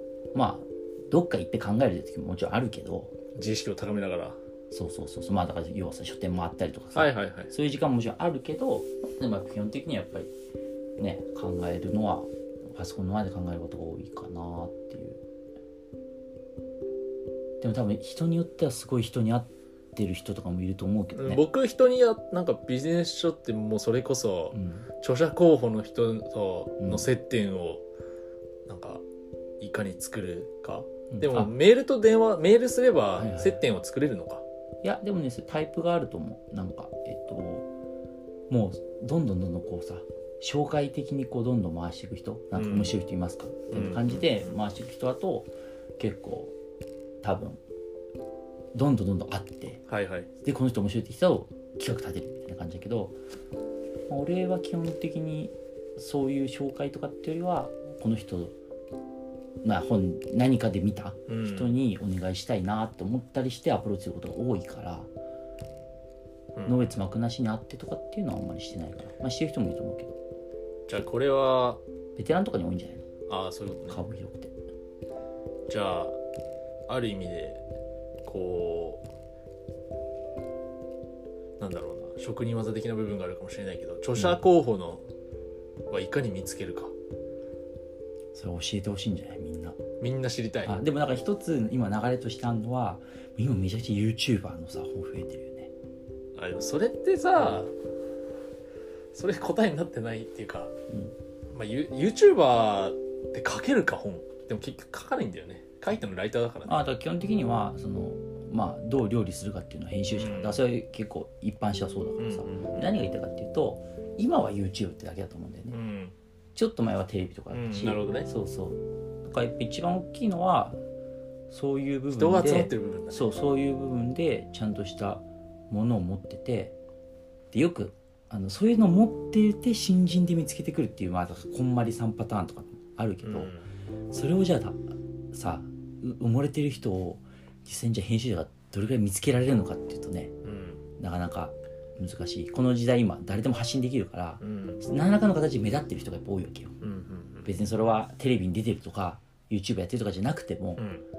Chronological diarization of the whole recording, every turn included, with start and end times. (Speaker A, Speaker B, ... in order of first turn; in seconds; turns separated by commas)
Speaker A: 0.3-3.1, Speaker B: 3.4-4.4, Speaker A: 4.7-10.3, Speaker B: 7.0-7.5, Speaker A: 11.0-15.2, Speaker A: 17.6-21.4, Speaker B: 21.1-27.8, Speaker A: 24.5-24.9, Speaker A: 26.8-27.1, Speaker B: 28.7-29.0, Speaker B: 29.6-34.4, Speaker A: 31.1-31.5, Speaker A: 33.2-33.6, Speaker A: 34.8-37.7, Speaker A: 38.5-46.5, Speaker B: 42.5-43.0, Speaker B: 43.7-44.5, Speaker A: 47.2-47.6, Speaker A: 48.7-49.8, Speaker B: 49.9-50.3, Speaker A: 50.4-53.2, Speaker A: 54.1-58.5, Speaker A: 59.6-65.1, Speaker B: 61.3-61.8, Speaker B: 66.5-67.0, Speaker A: 66.7-70.2, Speaker B: 70.9-71.8, Speaker A: 72.2-73.0, Speaker B: 73.3-74.0, Speaker A: 73.9-74.5, Speaker B: 75.7-76.2, Speaker B: 76.9-77.6, Speaker B: 78.2-79.0, Speaker B: 81.6-85.0, Speaker B: 85.9-86.9, Speaker A: 88.3-89.8, Speaker B: 90.0-90.8, Speaker A: 90.7-95.7, Speaker B: 96.4-97.7, Speaker B: 99.1-100.7, Speaker B: 101.5-106.8, Speaker A: 106.7-115.8, Speaker B: 110.1-110.7, Speaker B: 112.2-113.1, Speaker B: 115.7-116.1, Speaker A: 116.6-120.8, Speaker B: 117.5-118.3, Speaker A: 121.5-126.8, Speaker B: 122.1-123.3, Speaker A: 127.5-133.5, Speaker B: 133.2-133.7, Speaker A: 134.1-140.3, Speaker B: 140.4-140.8, Speaker A: 141.0-146.8, Speaker B: 144.4-144.8, Speaker B: 146.8-147.5, Speaker A: 147.5-150.8, Speaker B: 150.8-151.1